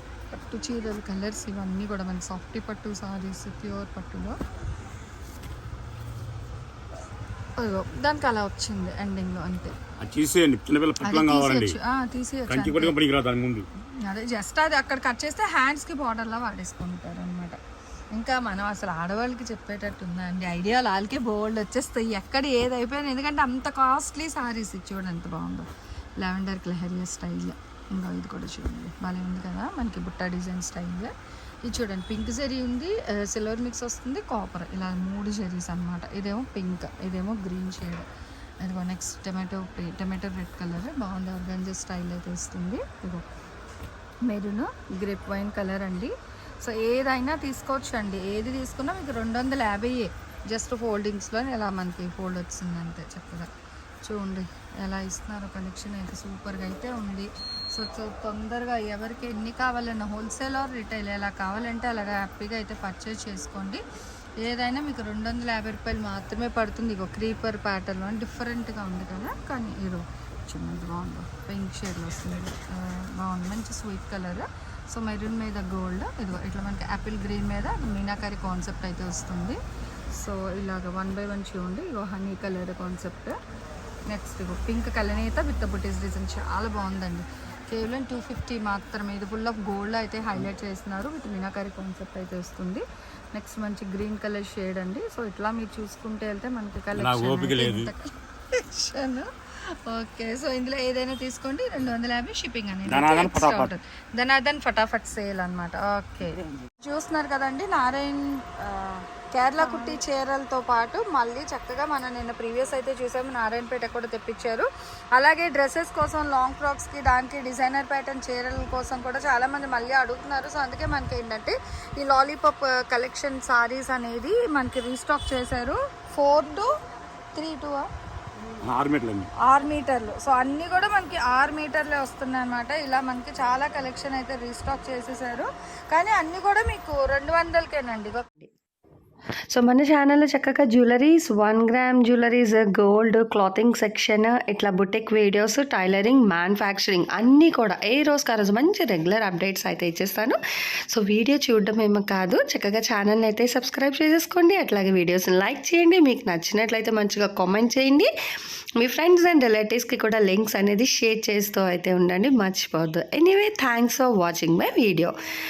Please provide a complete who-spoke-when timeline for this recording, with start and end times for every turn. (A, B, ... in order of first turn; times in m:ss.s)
0:00.3-0:04.4 A
0:07.6-0:09.7 A
0:10.0-0:11.8 B
0:11.0-0:12.9 A
0:12.5-0:13.6 B
0:14.0-0:17.6 A
0:18.1-0:25.7 A
0:26.2-0:31.1 A
0:31.6-0:38.0 A
0:38.6-0:43.3 A
0:44.2-0:53.5 A
0:54.0-1:03.8 A
1:04.4-1:19.6 A
1:20.1-1:23.4 A
1:24.1-2:06.7 A
1:37.0-1:37.9 B
1:42.8-1:43.7 B
2:07.3-2:07.9 A
2:08.6-2:09.3 B
2:09.4-2:18.3 A
2:19.5-2:30.4 C
2:30.9-2:38.1 C
2:38.8-2:45.2 C